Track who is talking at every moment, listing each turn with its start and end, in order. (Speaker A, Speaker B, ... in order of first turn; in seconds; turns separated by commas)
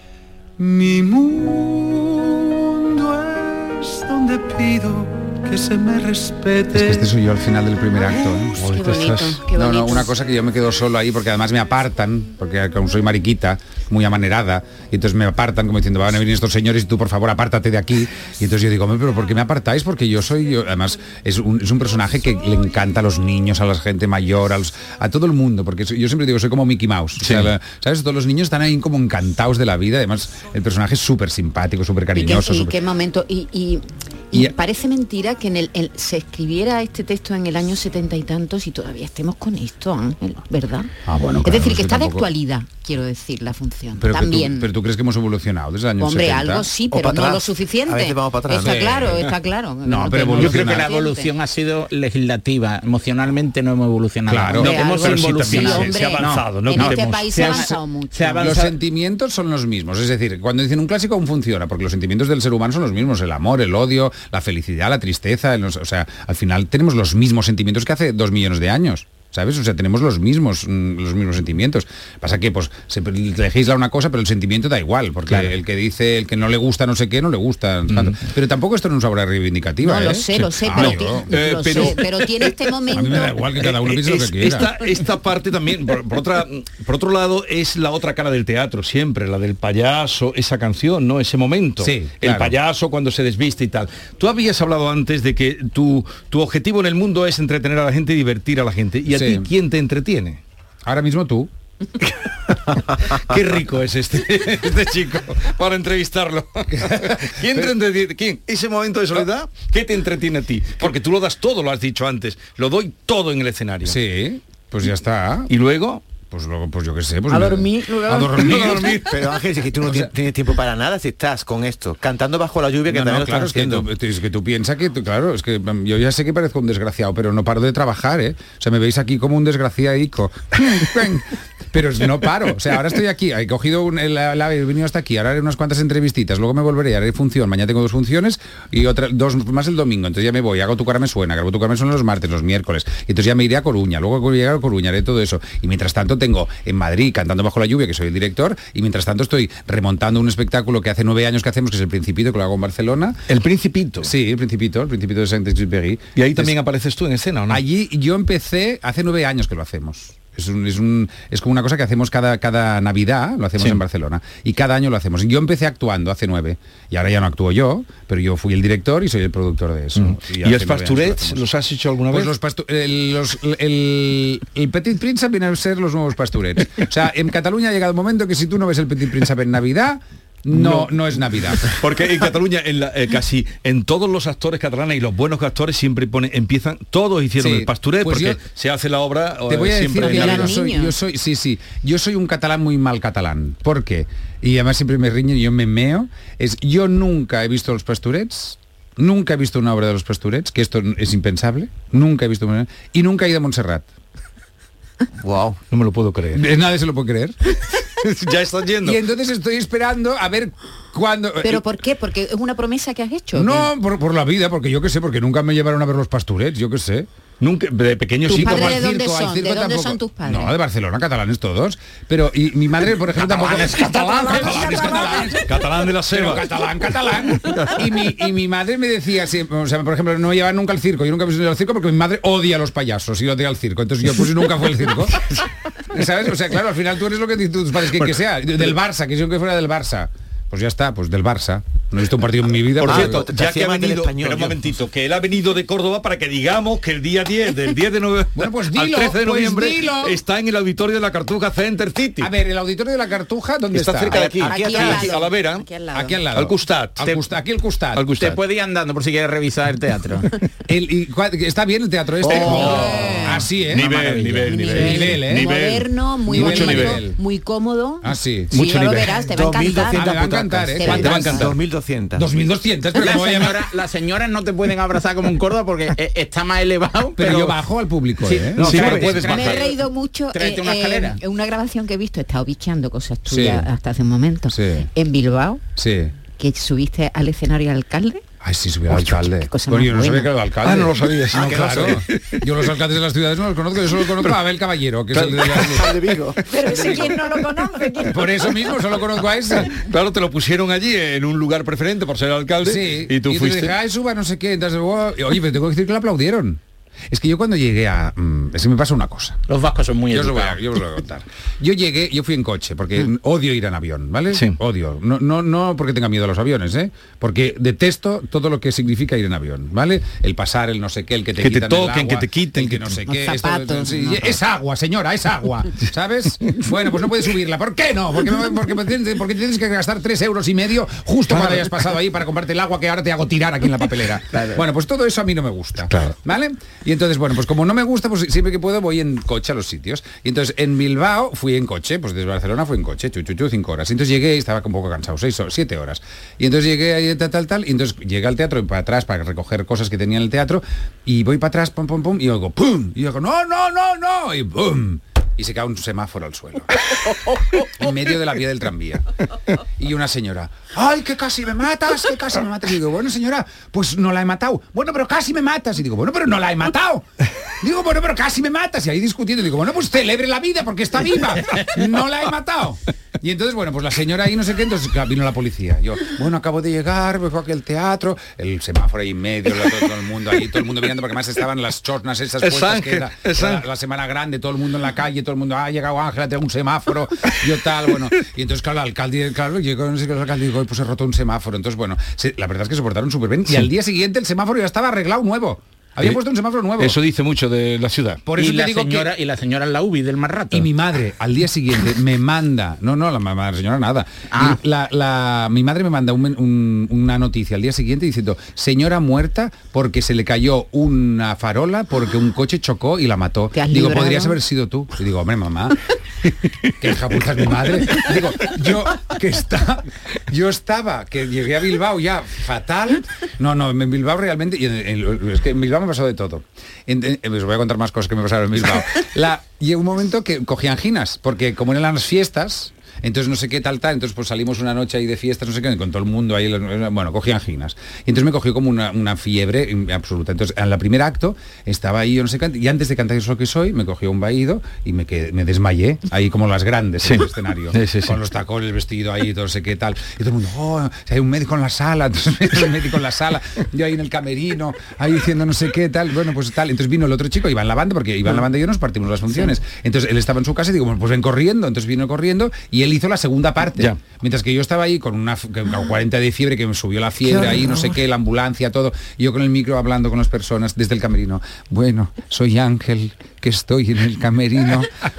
Speaker A: 0.6-7.1, Speaker B: 6.7-32.8, Speaker A: 8.0-8.8, Speaker C: 8.5-10.1, Speaker D: 27.2-27.5, Speaker C: 32.1-40.9, Speaker B: 41.1-42.3, Speaker C: 41.4-44.7, Speaker B: 44.0-46.7, Speaker C: 46.0-51.3, Speaker E: 46.9-48.9, Speaker B: 48.6-49.3, Speaker F: 49.9-58.8, Speaker D: 50.3-50.9, Speaker B: 50.4-50.7, Speaker B: 54.3-54.7, Speaker D: 54.4-57.6, Speaker C: 54.5-58.7, Speaker B: 58.4-82.0, Speaker D: 75.3-75.5, Speaker D: 77.9-78.2, Speaker C: 79.8-83.4, Speaker D: 80.3-100.4, Speaker B: 82.9-84.7, Speaker B: 91.8-92.5, Speaker B: 99.1-99.5, Speaker B: 100.9-101.5, Speaker D: 103.1-114.0, Speaker B: 106.8-107.7, Speaker B: 113.8-115.5, Speaker D: 115.5-116.0, Speaker B: 116.3-119.0, Speaker C: 117.3-118.5, Speaker D: 118.1-119.2, Speaker E: 119.0-123.9, Speaker B: 122.9-153.2, Speaker D: 153.3-154.1, Speaker B: 154.0-156.5, Speaker D: 156.2-157.6, Speaker B: 157.5-171.4, Speaker D: 170.0-172.3, Speaker B: 172.1-181.8, Speaker D: 180.5-181.0, Speaker D: 181.6-190.6, Speaker B: 187.4-188.4, Speaker B: 189.5-203.9, Speaker C: 190.0-190.9, Speaker E: 205.2-205.6, Speaker D: 205.7-206.4, Speaker B: 206.3-207.4, Speaker D: 208.0-209.0, Speaker B: 208.8-211.6, Speaker C: 211.4-213.7, Speaker B: 213.3-217.1, Speaker D: 217.4-218.8, Speaker B: 218.3-225.4, Speaker C: 218.3-220.6, Speaker C: 223.4-225.4, Speaker F: 223.5-224.8, Speaker D: 224.6-226.7, Speaker B: 226.1-243.2, Speaker D: 227.5-227.9, Speaker D: 237.9-238.8, Speaker D: 242.8-252.3, Speaker E: 242.8-244.6, Speaker B: 248.4-250.2, Speaker B: 252.2-254.2, Speaker D: 253.7-255.7, Speaker E: 254.1-255.1, Speaker C: 254.4-256.2, Speaker B: 255.9-258.1, Speaker D: 256.3-257.3, Speaker D: 257.9-258.4, Speaker F: 258.2-260.3, Speaker B: 260.7-264.0, Speaker D: 262.2-267.1, Speaker C: 262.4-263.5, Speaker F: 263.7-264.9, Speaker C: 264.4-271.5, Speaker B: 264.7-265.5, Speaker B: 266.3-267.2, Speaker B: 268.0-269.1, Speaker E: 268.6-272.3, Speaker B: 269.9-271.5, Speaker D: 270.8-271.6, Speaker B: 272.2-273.6, Speaker F: 272.9-277.6, Speaker B: 277.2-279.4, Speaker F: 278.2-281.2, Speaker D: 278.6-279.7, Speaker C: 279.3-285.6, Speaker B: 283.3-283.7, Speaker B: 284.5-284.9, Speaker B: 285.8-286.1, Speaker C: 286.4-288.2, Speaker B: 288.4-295.9, Speaker C: 289.5-290.3, Speaker D: 290.6-292.4, Speaker D: 295.1-295.9, Speaker E: 295.9-296.4, Speaker C: 296.5-298.5, Speaker B: 296.6-297.1, Speaker B: 298.0-299.8, Speaker D: 299.5-303.8, Speaker B: 302.6-306.6, Speaker B: 307.1-309.4, Speaker F: 309.5-310.7, Speaker B: 310.1-356.9, Speaker D: 314.3-314.6, Speaker D: 321.4-323.0, Speaker C: 323.1-324.4, Speaker D: 331.3-331.6, Speaker F: 334.3-334.6, Speaker B: 357.6-359.1, Speaker B: 359.8-367.1, Speaker B: 367.6-396.9, Speaker D: 382.4-383.6, Speaker D: 396.8-398.2, Speaker B: 398.3-399.1, Speaker F: 398.3-400.7, Speaker B: 400.5-415.8, Speaker F: 404.3-404.6, Speaker C: 413.5-414.4, Speaker B: 416.8-474.9, Speaker D: 447.0-448.2